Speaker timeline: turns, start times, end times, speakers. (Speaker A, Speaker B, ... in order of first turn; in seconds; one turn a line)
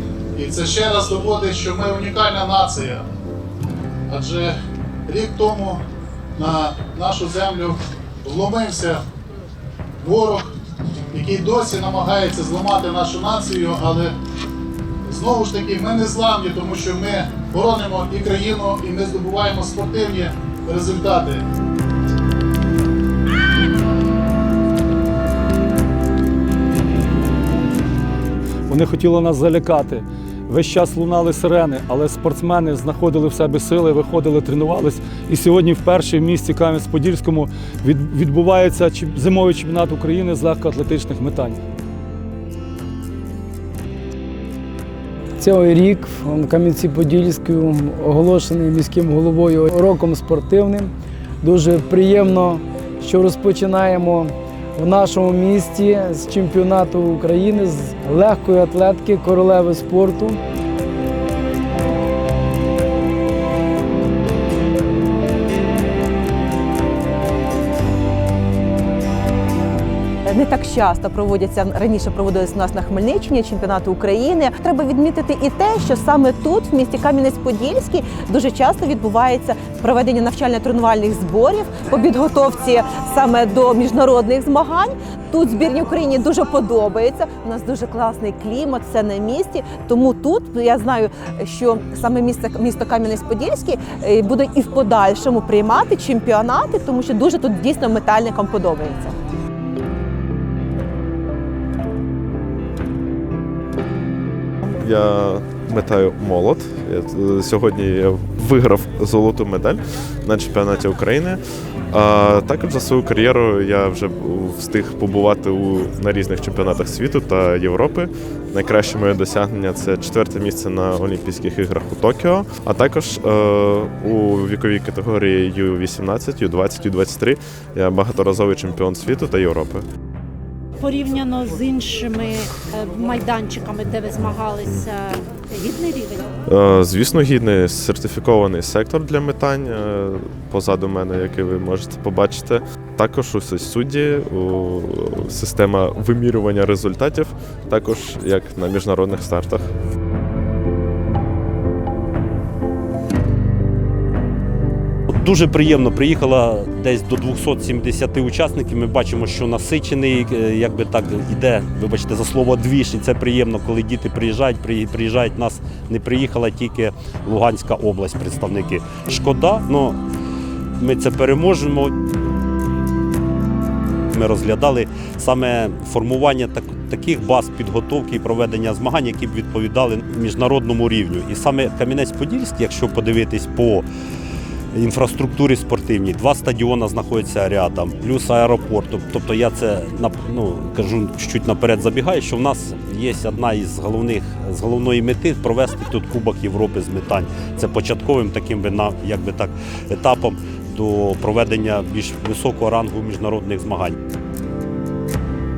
Speaker A: 0.3-3.1
Speaker A: 4.1-5.8
Speaker A: 6.4-9.0
Speaker A: 10.0-10.5
Speaker A: 11.1-14.1
Speaker A: 15.0-21.4
Speaker B: 28.7-41.6
Speaker C: 45.4-50.9
Speaker C: 51.4-60.4
Speaker D: 70.2-99.1
Speaker E: 104.8-129.8
Speaker F: 130.8-136.3
Speaker E: 136.5-149.7
Speaker G: 155.1-170.0
Speaker G: 170.8-171.9
Speaker G: 174.1-183.8
Speaker G: 184.7-203.9